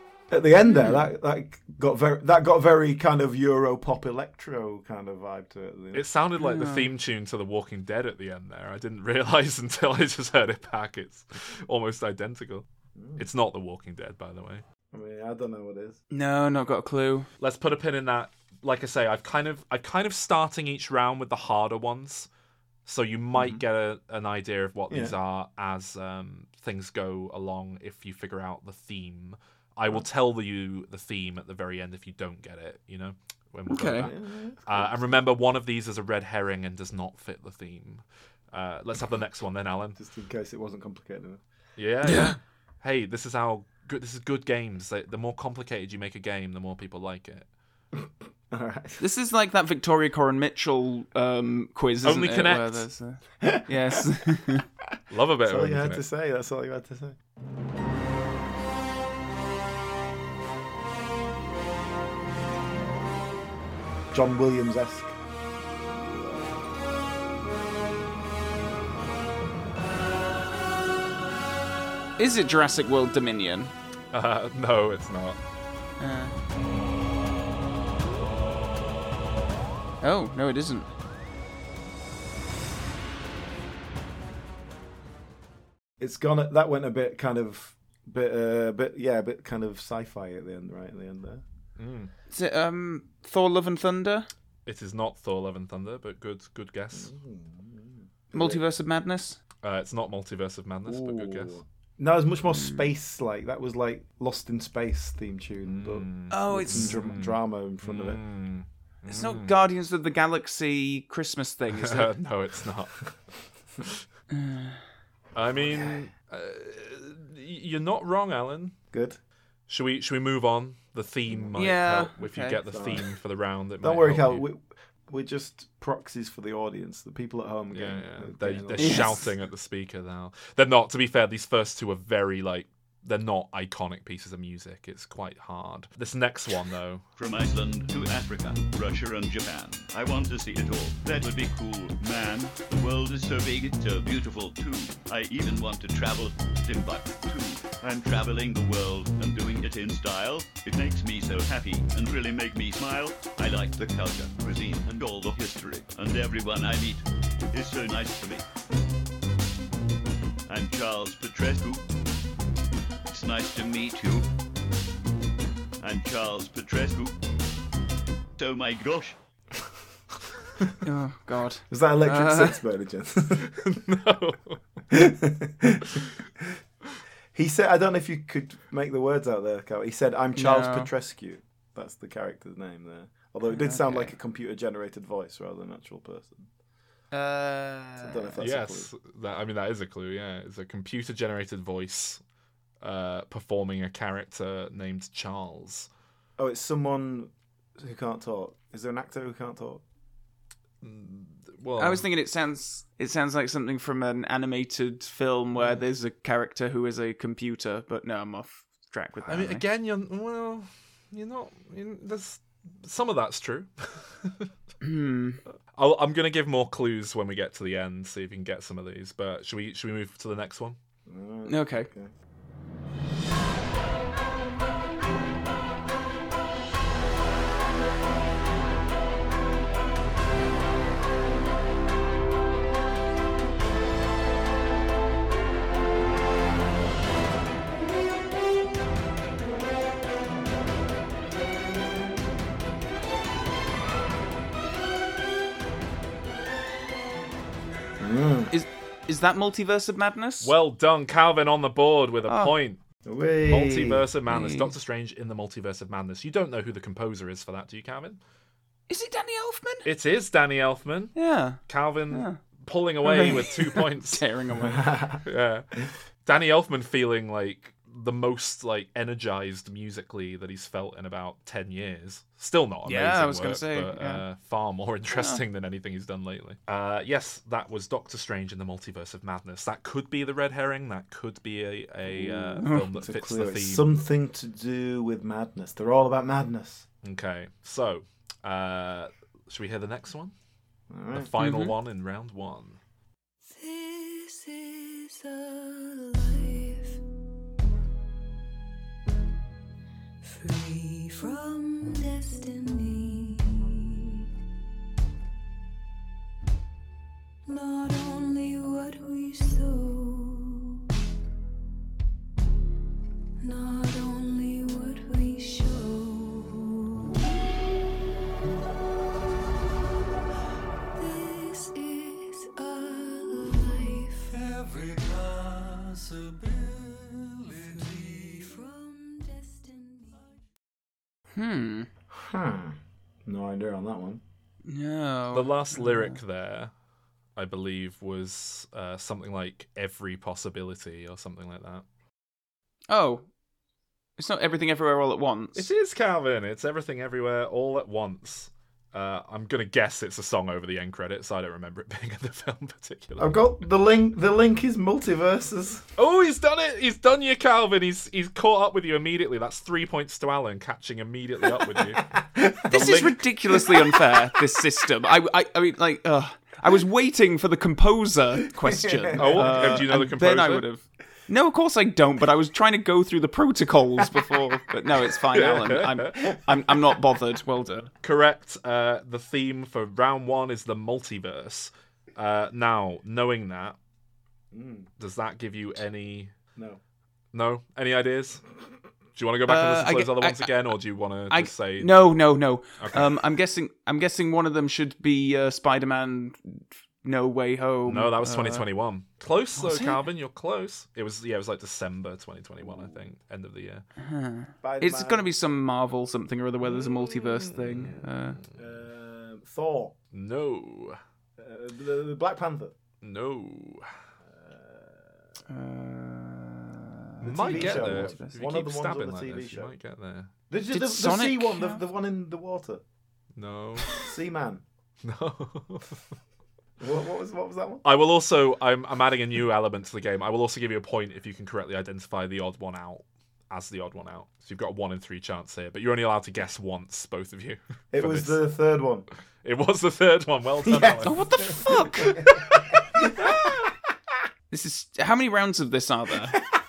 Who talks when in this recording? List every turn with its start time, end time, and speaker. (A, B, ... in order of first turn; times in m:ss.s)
0:00.3-0:06.0 A
0:00.7-0:01.0 B
0:05.9-0:12.6 C
0:06.4-0:06.9 B
0:12.9-0:13.2 A
0:13.2-0:14.6 C
0:14.9-0:16.0 A
0:16.1-0:17.3 B
0:17.4-0:22.3 C
0:22.8-0:40.0 C
0:23.3-0:23.6 A
0:24.9-0:25.1 A
0:33.7-0:34.1 B
0:34.0-0:35.2 A
0:40.0-0:41.4 A
0:41.8-0:47.5 C
0:42.0-0:42.3 B
0:47.9-0:49.0 A
0:49.0-0:54.6 B
0:52.0-0:52.9 C
0:53.4-0:54.0 A
0:55.1-0:56.0 C
0:55.4-0:57.2 A
1:04.1-1:05.2 A
1:12.2-1:13.7 B
1:14.1-1:15.4 C
1:16.0-1:16.3 B
1:20.0-1:20.9 B
1:26.0-1:31.4 A
1:31.8-1:32.1 C
1:32.3-1:34.3 B
1:34.6-1:37.1 C
1:36.9-1:38.6 A
1:38.3-1:39.4 B
1:39.6-1:41.6 C
1:40.8-1:48.2 A
1:42.5-1:42.9 B
1:45.7-1:49.5 C
1:46.3-1:46.9 B
1:49.1-1:52.1 B
1:51.7-1:53.0 C
1:54.3-1:54.8 B
1:55.3-1:58.7 C
1:55.5-1:56.0 A
1:58.9-1:59.2 A
1:59.7-2:04.4 C
2:01.6-2:02.6 B
2:02.7-2:03.0 A
2:03.8-2:09.2 A
2:07.7-2:17.0 C
2:08.8-2:09.2 B
2:17.2-2:38.4 D
2:40.5-2:41.8 D
2:43.1-2:44.3 D
2:45.8-2:47.1 D
2:48.4-2:49.2 D
2:50.8-2:52.6 B
2:51.7-2:53.5 A
2:53.4-2:54.6 C
2:54.9-2:56.4 A
2:57.3-3:06.5 A
3:00.4-3:00.9 B
3:03.5-3:04.1 B
3:07.1-3:08.4 B
3:08.0-3:08.9 A
3:08.4-3:12.2 C
3:12.8-3:15.9 C
3:16.4-3:19.8 A
3:20.8-3:22.0 C
3:21.8-3:29.6 B
3:29.2-3:34.5 C
3:34.8-3:35.4 B
3:35.7-3:40.8 C
3:41.0-3:42.1 A
3:41.4-3:41.9 B
4:08.0-4:08.5 A
4:08.5-4:10.5 B
4:10.4-4:12.8 C
4:12.3-4:12.5 B
4:13.0-4:14.0 A
4:13.4-4:18.2 C
4:14.3-4:14.7 B
4:18.9-4:19.9 B
4:19.8-4:21.1 C
4:21.1-4:21.6 B
4:21.6-4:24.2 C
4:22.1-4:22.4 B
4:23.0-4:24.8 B
4:24.6-4:25.2 A
4:25.2-4:43.9 C
4:32.8-4:34.2 B
4:35.1-4:35.4 B
4:42.1-4:46.8 A
4:47.0-4:50.3 C
4:50.9-4:51.3 A
4:51.1-4:52.8 C
4:51.4-4:51.7 B
4:53.4-4:57.0 E
5:00.2-5:04.2 E
5:07.4-5:10.8 E
5:13.4-5:17.2 E
5:20.9-5:25.1 E
5:27.4-5:30.3 E
5:31.3-5:31.9 B
5:32.1-5:34.2 A
5:34.6-5:36.2 B
5:35.3-5:36.7 C
5:37.4-5:41.8 C
5:42.9-5:43.2 B
5:44.2-5:45.6 B
5:45.5-5:53.3 C
5:53.2-5:55.9 A
5:56.0-6:02.1 C
6:01.6-6:04.1 A
6:02.7-6:17.9 B
6:02.7-6:03.2 C
6:08.6-6:09.8 A
6:09.2-6:10.6 C
6:15.3-6:16.4 C
6:18.0-6:23.8 C
6:24.5-6:24.9 A
6:25.0-6:26.3 C
6:26.5-6:26.8 A
6:27.3-6:28.4 C
6:29.1-6:32.0 C
6:29.5-6:30.7 B
6:31.3-6:38.6 B
6:32.8-6:33.1 C
6:37.8-6:43.8 C
6:39.6-6:40.0 B
6:42.6-6:43.0 A
6:44.0-6:48.4 B
6:44.6-6:45.3 A
6:46.7-6:48.5 C
6:48.5-6:49.9 A
6:50.1-6:51.0 C
6:51.4-6:52.7 A
6:53.0-6:54.0 C
6:54.2-6:55.3 A
6:55.5-6:58.4 B
6:57.2-6:59.7 A
6:57.2-7:00.3 C
7:00.5-7:02.8 A
7:00.7-7:01.8 B
7:03.4-7:04.1 C
7:04.0-7:04.6 A
7:05.0-7:06.0 C
7:06.8-7:07.8 A
7:07.8-7:18.4 C
7:17.9-7:19.1 A
7:19.4-7:22.6 C
7:20.6-7:23.4 A
7:21.0-7:22.2 B
7:24.5-7:26.4 B